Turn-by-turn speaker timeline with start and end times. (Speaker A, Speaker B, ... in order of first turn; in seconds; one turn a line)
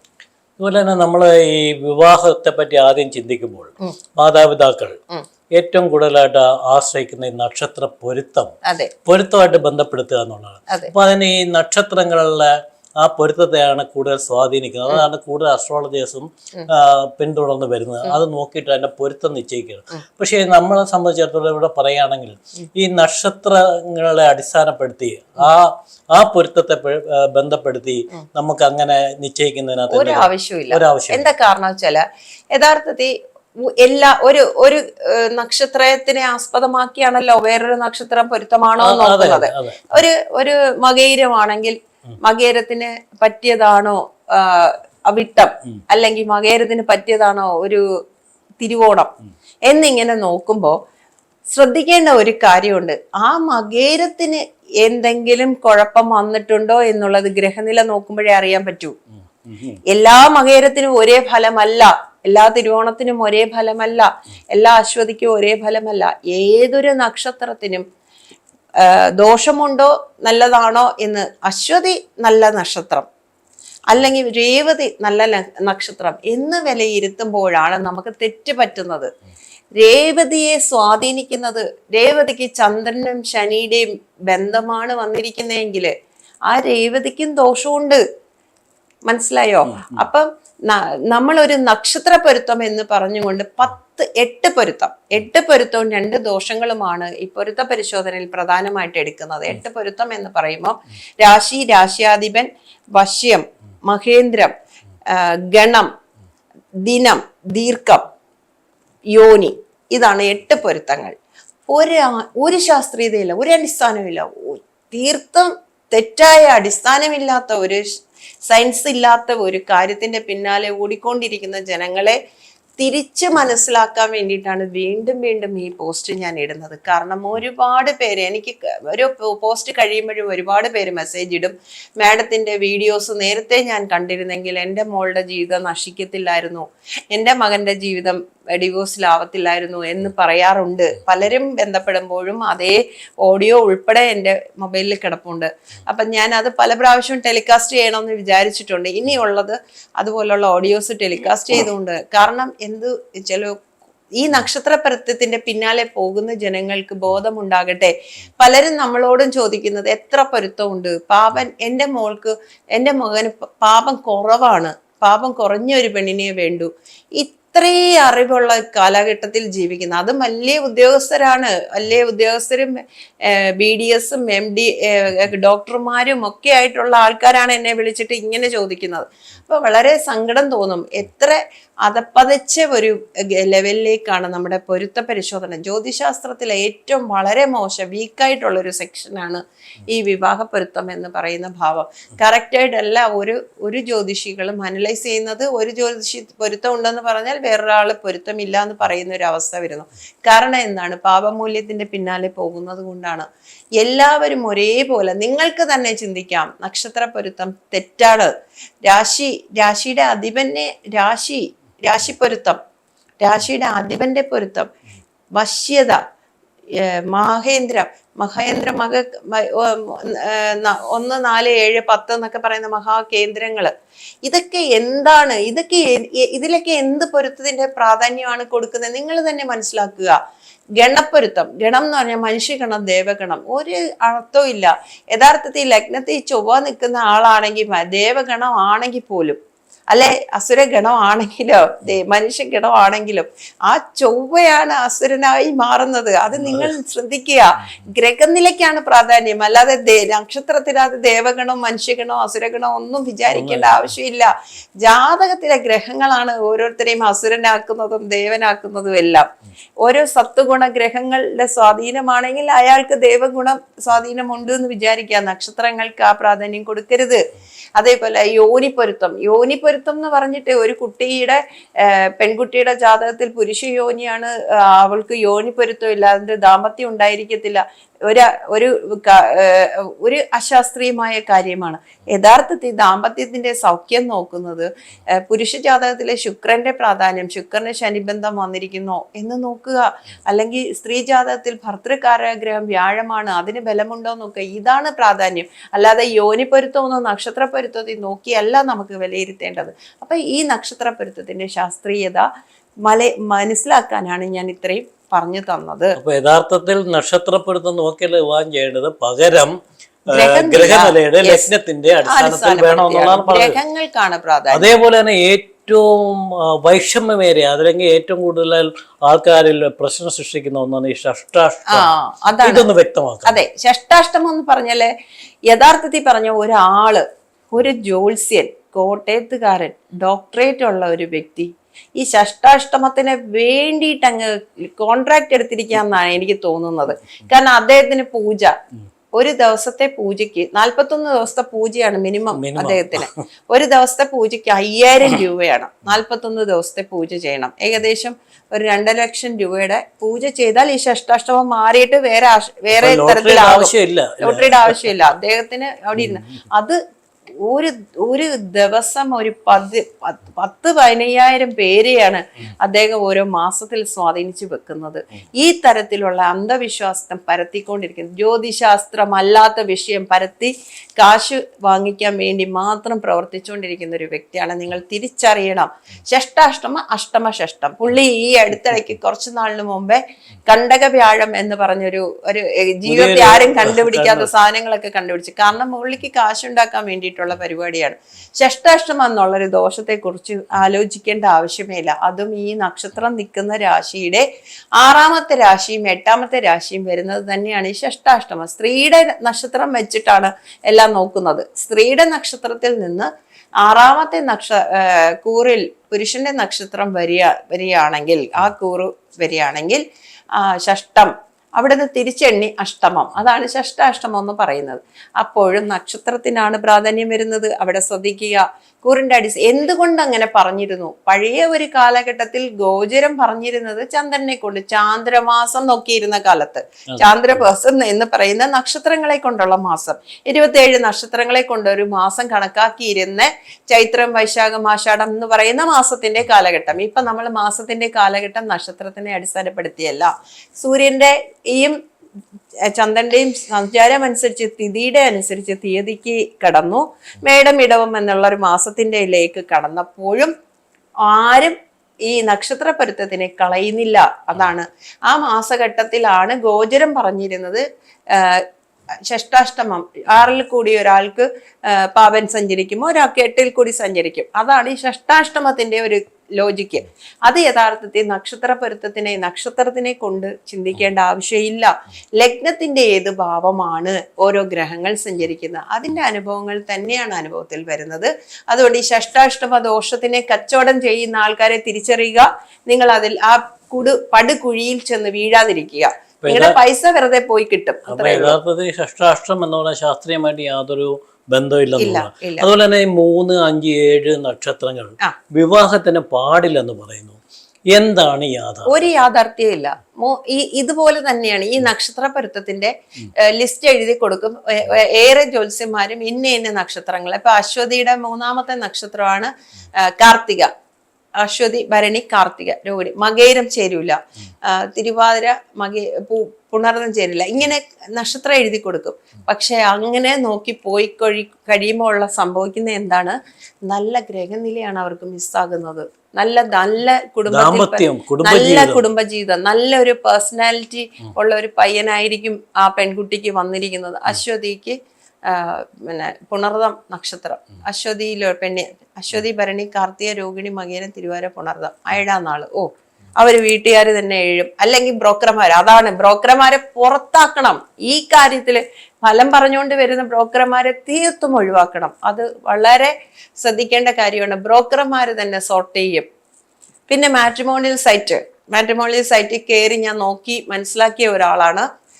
Speaker A: 0.6-4.9
Speaker A: 5.6-8.5
Speaker B: 8.6-9.1
Speaker A: 9.2-31.2
Speaker B: 10.7-11.1
Speaker B: 17.9-18.4
Speaker B: 27.9-28.4
Speaker B: 29.8-47.8
Speaker A: 38.8-39.5
Speaker B: 48.6-49.1
Speaker B: 49.7-50.8
Speaker B: 51.5-59.0
Speaker A: 59.4-59.8
Speaker B: 59.9-67.8
Speaker B: 68.7-73.1
Speaker B: 73.9-79.1
Speaker B: 79.8-85.9
Speaker B: 86.5-88.0
Speaker B: 89.1-104.5
Speaker B: 105.0-105.9
Speaker B: 106.8-108.0
Speaker B: 109.1-111.1
Speaker B: 111.7-122.2
Speaker B: 122.8-153.6
Speaker B: 154.2-203.3
Speaker B: 203.8-208.3
Speaker B: 208.8-212.6
Speaker B: 213.2-214.7
Speaker B: 215.3-216.0
Speaker B: 216.7-223.7
Speaker B: 224.2-230.2
Speaker B: 230.8-239.4
Speaker B: 239.9-267.2
Speaker A: 246.4-246.7
Speaker A: 253.3-253.8
Speaker B: 267.8-302.3
Speaker B: 302.8-306.1
Speaker A: 306.2-307.5
Speaker A: 308.0-309.1
Speaker B: 309.1-309.5
Speaker B: 310.1-315.0
Speaker A: 310.1-311.4
Speaker A: 312.4-313.6
Speaker A: 315.2-316.6
Speaker B: 316.6-317.3
Speaker A: 317.4-317.8
Speaker A: 318.5-319.2
Speaker B: 319.5-324.9
Speaker B: 325.5-338.5
Speaker B: 339.1-356.8
Speaker A: 342.3-343.1
Speaker A: 352.7-353.7
Speaker A: 354.3-354.8
Speaker B: 357.4-394.2
Speaker A: 382.9-384.3
Speaker B: 394.8-403.1
Speaker B: 403.6-441.8
Speaker B: 442.7-450.3
Speaker B: 451.0-451.6
Speaker B: 452.1-458.5
Speaker B: 459.1-488.4
Speaker A: 486.3-486.6
Speaker A: 487.9-490.9
Speaker B: 491.3-493.3
Speaker A: 492.8-493.9
Speaker B: 494.2-496.8
Speaker A: 496.8-497.2
Speaker B: 497.8-510.5
Speaker A: 497.9-498.6
Speaker B: 511.2-523.1
Speaker B: 523.7-556.1
Speaker B: 556.9-561.6